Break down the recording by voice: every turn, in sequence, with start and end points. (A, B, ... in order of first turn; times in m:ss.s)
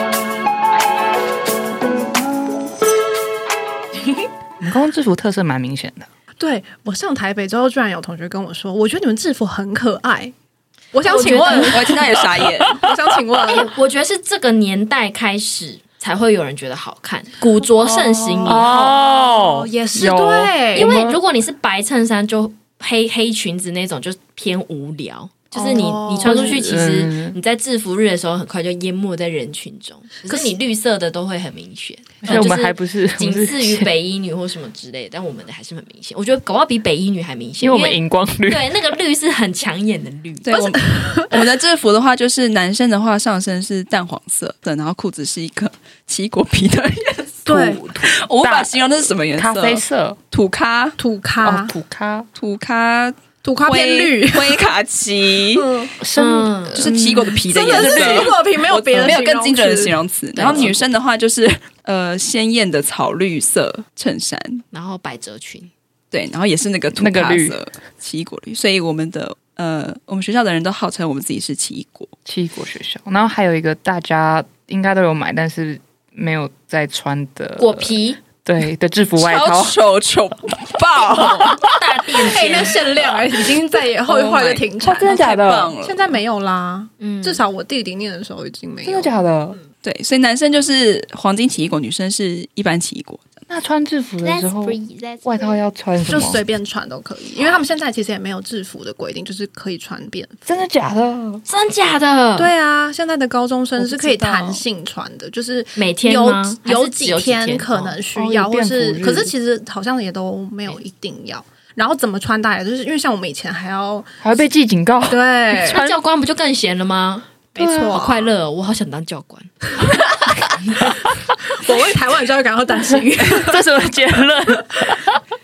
0:04.6-0:06.1 A
0:06.4-0:10.3 B
0:10.9-0:12.0 B
0:11.0-0:11.9 C
0:11.0-0:12.9 D
0:12.4-0:12.8 A
0:12.7-0:13.7 B
0:13.4-0:19.0 C
0:18.4-0:21.2 A
0:18.9-0:21.0 B
0:20.7-0:40.8 C
0:25.5-0:26.6 B
0:26.2-0:27.4 A
0:32.2-0:33.9 A
0:37.6-0:38.7 A
0:40.4-0:51.0 D
0:47.4-0:47.8 B
0:47.5-0:50.2 A
0:51.0-0:51.7 B
0:51.4-0:52.3 A
0:52.3-0:55.8 D
0:53.4-0:54.7 B
0:55.5-0:55.9 B
0:56.0-0:58.2 A
0:56.1-0:56.8 C
0:56.7-1:04.6 D
0:57.5-1:00.7 B
1:00.4-1:00.8 C
1:04.7-1:05.7 C
1:06.1-1:12.1 D
1:07.0-1:07.6 A
1:12.2-1:19.8 A
1:17.6-1:18.2 C
1:19.2-1:21.6 D
1:21.6-1:22.8 C
1:22.2-1:25.1 B
1:24.0-1:26.2 D
1:24.8-1:25.7 A
1:25.8-1:29.2 B
1:27.0-1:27.4 C
1:28.8-1:29.6 A
1:29.8-1:33.2 D
1:33.5-1:36.4 A
1:34.2-1:35.6 C
1:36.0-1:40.4 B
1:40.4-1:41.4 A
1:41.5-1:42.5 C
1:42.4-1:54.1 B
1:43.8-1:44.6 D
1:45.8-1:48.0 C
1:48.1-1:49.3 A
1:54.2-1:56.0 A
1:55.1-1:55.8 B
1:55.6-1:57.3 C
1:57.5-1:58.3 B
1:57.6-1:58.0 A
1:57.9-2:00.0 C
2:00.6-2:01.0 C
2:01.6-2:03.6 B
2:03.2-2:05.2 A